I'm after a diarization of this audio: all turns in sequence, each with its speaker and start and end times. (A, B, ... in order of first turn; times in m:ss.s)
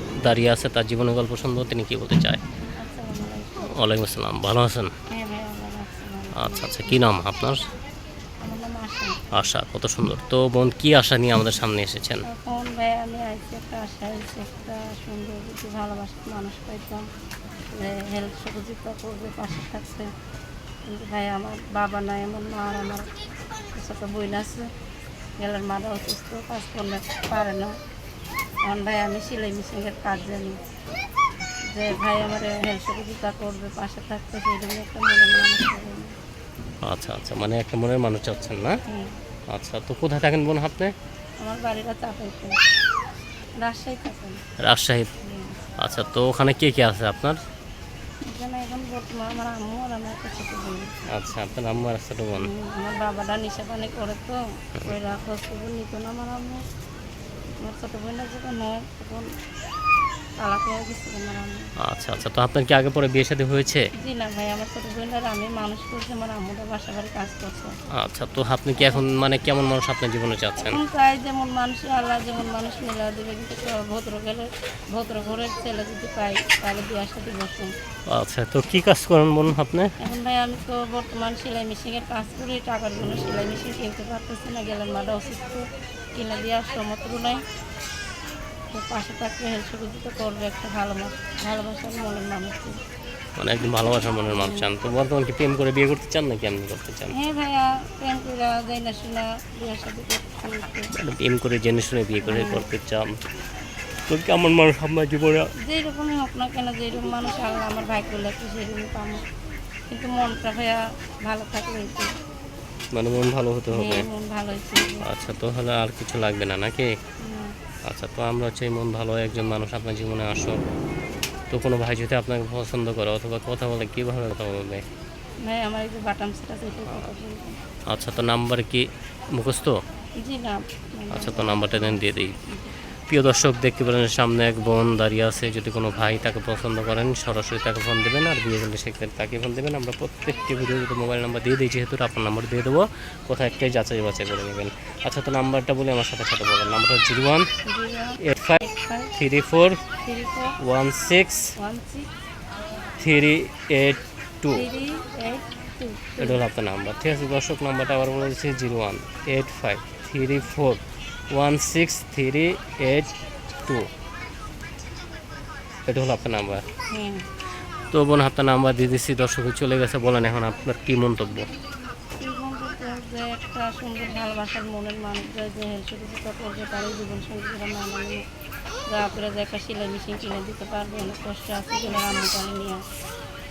0:00.2-0:02.4 A
0:02.8-0:03.7 B
0:03.7-0:04.9 A
0:05.1-0:07.0 B
0:06.4-0:07.6 A
0:08.4-0:09.2 B
0:09.3-0:12.2 A
0:12.2-0:17.0 B
0:17.7-0:20.1 B
0:20.8-0:23.1 B
0:23.7-0:24.7 B
0:25.4-0:27.7 B
0:28.6-0:30.6 B
0:31.7-0:36.1 B
0:36.8-0:38.8 A
0:38.9-0:39.2 B
0:39.5-0:40.9 A
0:41.4-0:42.6 B
0:43.6-0:44.4 B
0:44.6-0:45.1 A
0:45.2-0:45.6 B
0:45.8-0:47.4 A
0:48.2-0:50.9 B
0:51.1-0:52.5 A
0:52.4-0:56.6 B
0:57.6-0:59.3 B
1:00.4-1:01.7 B
1:01.8-1:03.9 A
1:04.0-1:07.7 B
1:08.0-1:10.8 A
1:10.6-1:17.7 B
1:18.1-1:19.9 A
1:20.0-1:27.4 B
1:28.7-1:32.8 B
1:33.4-1:37.1 A
1:34.3-1:34.7 B
1:37.1-1:40.9 B
1:41.0-1:43.1 A
1:42.2-1:42.7 B
1:44.1-1:45.5 A
1:45.6-1:49.2 B
1:49.9-1:52.1 B
1:52.9-1:54.0 A
1:53.7-1:55.0 B
1:55.0-1:56.9 A
1:57.2-1:57.5 B
1:57.9-2:00.6 A
2:01.5-2:04.8 A
2:05.4-2:07.6 B
2:07.9-2:09.8 A
2:10.2-2:12.0 B
2:11.1-2:12.4 A
2:13.1-2:27.5 A
2:27.6-2:29.1 B
2:28.2-2:28.6 A
2:29.1-2:29.8 A
2:30.0-2:30.6 B
2:30.6-2:31.5 A
2:31.6-2:32.1 B
2:33.0-2:34.6 A
2:34.5-2:36.4 B
2:36.2-2:43.9 A
2:45.9-2:46.6 A
2:46.9-2:47.3 B
2:47.9-2:51.5 A
2:52.2-2:58.2 B
2:58.9-3:02.8 B